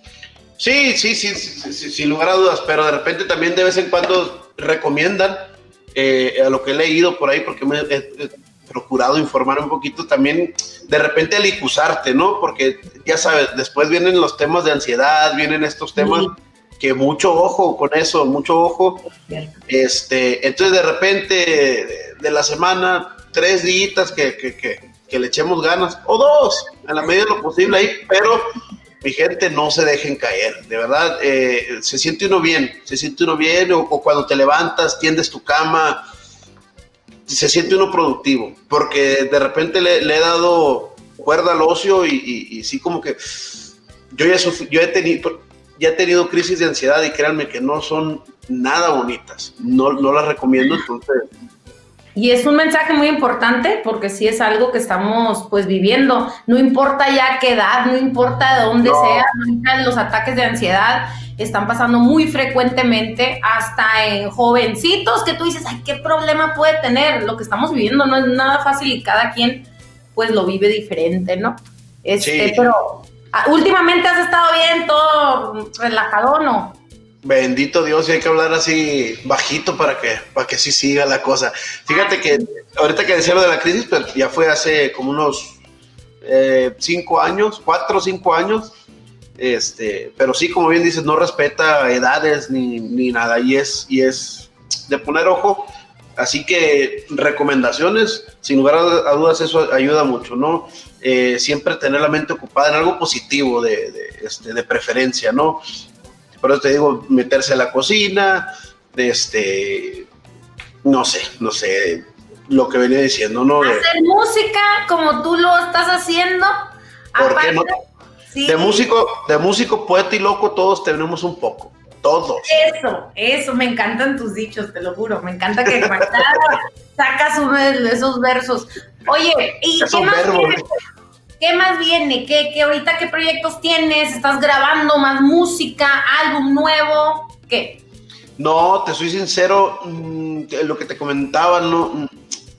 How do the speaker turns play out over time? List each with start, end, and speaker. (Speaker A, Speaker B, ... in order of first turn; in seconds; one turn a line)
Speaker A: 0.6-19.1
Speaker B: 16.0-16.3
Speaker B: 19.3-19.5
Speaker A: 19.7-28.5
Speaker A: 29.0-36.0
Speaker A: 37.3-51.2
Speaker B: 52.1-76.8
Speaker A: 58.8-59.3
Speaker A: 72.2-72.7
Speaker A: 77.2-85.6
Speaker B: 81.9-82.4
Speaker A: 86.2-88.7
Speaker A: 89.4-105.6
Speaker A: 106.4-110.1
Speaker A: 110.8-113.9
Speaker B: 113.6-117.7
Speaker A: 117.2-117.7
Speaker B: 118.3-118.8
Speaker A: 118.5-122.5
Speaker B: 122.5-130.6
Speaker A: 129.8-130.6
Speaker B: 131.4-137.8
Speaker A: 138.4-142.1